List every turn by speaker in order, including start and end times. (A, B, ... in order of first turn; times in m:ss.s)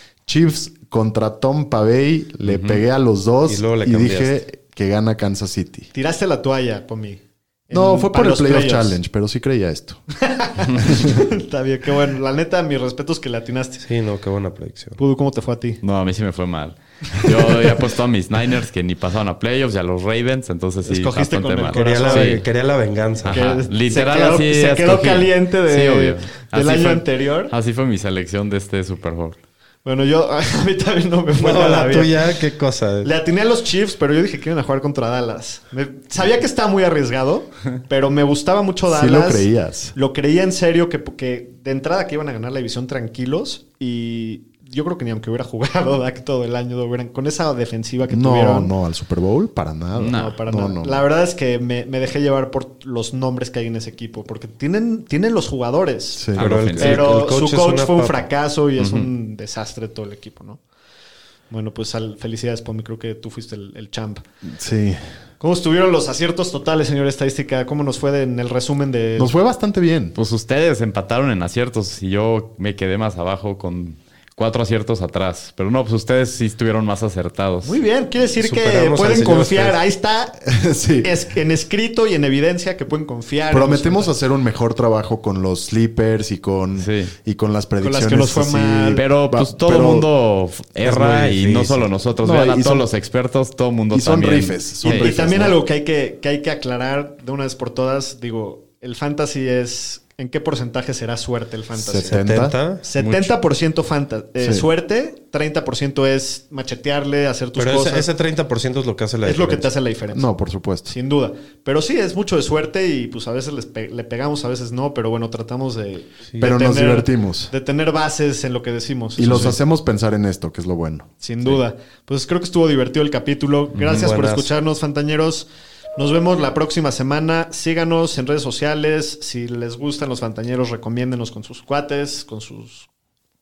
0:00.2-0:05.9 A
0:02.4-0:02.8 B
0:03.4-0:04.4 C
0:05.9-0:09.0 D
0:07.7-0:10.0 A
0:10.2-0:13.9 D
0:10.8-0:11.2 A
0:13.8-0:15.0 C
0:15.0-0:15.8 D
0:15.8-0:22.4 B
0:20.8-0:22.4 D
0:21.7-0:23.4 C
0:23.2-0:29.4 B
0:23.2-0:27.5 D
0:29.8-0:32.3 D
0:31.4-0:33.1 C
0:33.0-0:48.7 D
0:38.9-0:39.9 A
0:48.1-0:51.0 A
0:50.0-0:50.4 B
0:50.0-1:00.6 D
0:56.1-0:56.4 A
0:56.4-0:57.2 B
0:56.4-0:58.2 C
0:58.8-0:59.1 B
1:01.5-1:04.2 D
1:04.4-1:05.0 A
1:05.4-1:09.3 D
1:09.2-1:10.2 A
1:10.1-1:17.8 B
1:17.6-1:20.4 D
1:18.4-1:19.8 C
1:20.4-1:21.1 A
1:21.0-1:24.1 D
1:23.5-1:30.1 A
1:26.8-1:27.1 B
1:27.8-1:29.0 D
1:28.9-1:35.1 B
1:30.8-1:31.9 C
1:32.2-1:32.9 A
1:33.9-1:35.6 A
1:34.8-1:42.2 D
1:41.7-1:42.6 A
1:42.0-1:42.8 C
1:42.8-1:48.1 D
1:43.0-1:43.3 B
1:44.4-1:44.6 A
1:47.6-1:49.7 C
1:49.2-1:50.3 D
1:50.1-1:50.9 A
1:50.8-1:59.6 D
1:56.4-1:57.5 A
1:59.2-2:01.1 A
2:01.2-2:12.9 D
2:03.8-2:04.5 C